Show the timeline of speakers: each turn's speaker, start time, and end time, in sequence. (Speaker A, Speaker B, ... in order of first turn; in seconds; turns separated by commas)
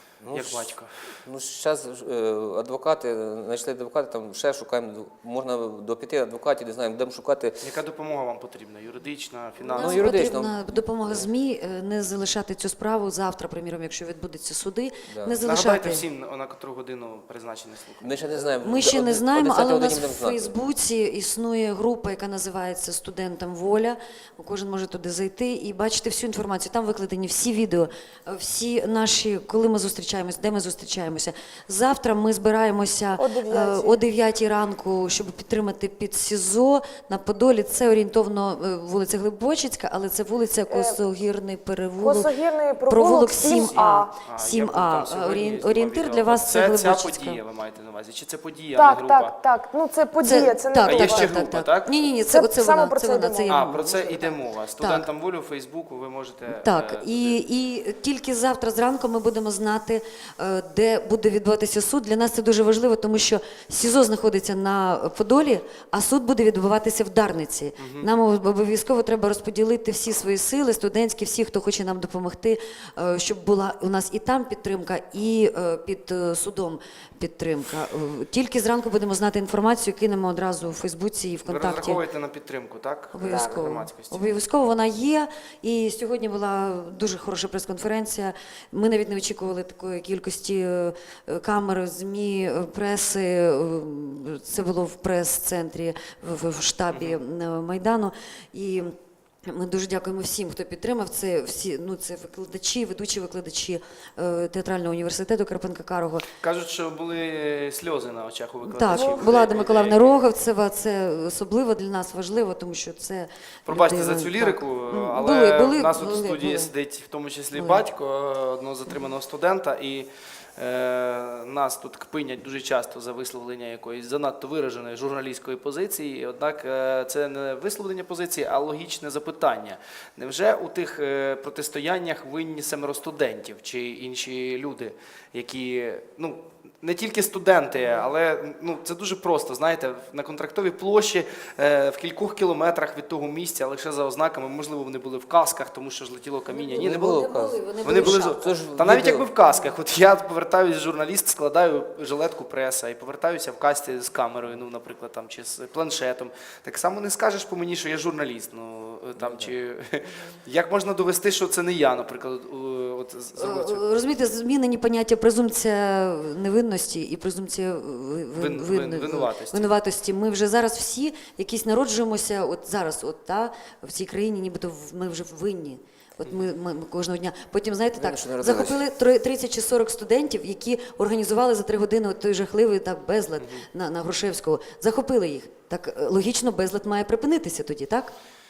Speaker A: 0.2-7.6, Speaker B: 0.3-1.1, Speaker B: 7.6-10.1, Speaker C: 9.7-16.0, Speaker A: 9.7-10.6, Speaker A: 15.1-15.4, Speaker B: 15.4-18.2, Speaker A: 18.0-20.6, Speaker C: 18.6-42.3, Speaker D: 33.2-34.0, Speaker D: 40.7-41.0, Speaker D: 42.0-44.1, Speaker C: 42.9-47.4, Speaker B: 43.5-49.3, Speaker D: 48.8-51.3, Speaker C: 50.2-54.2, Speaker B: 50.8-51.9, Speaker D: 52.3-54.3, Speaker B: 53.5-57.4, Speaker C: 54.8-55.0, Speaker C: 56.5-82.0, Speaker B: 67.8-68.1, Speaker B: 81.4-84.2, Speaker C: 83.1-106.3, Speaker D: 83.2-83.6, Speaker B: 96.9-97.2, Speaker B: 106.4-110.2, Speaker C: 108.6-116.7, Speaker D: 108.9-109.3, Speaker B: 113.7-147.3, Speaker C: 117.5-117.8, Speaker C: 146.5-148.5, Speaker A: 146.7-149.3, Speaker B: 147.8-163.8, Speaker A: 159.2-159.5, Speaker C: 163.4-188.1, Speaker B: 168.4-169.7, Speaker A: 177.9-178.8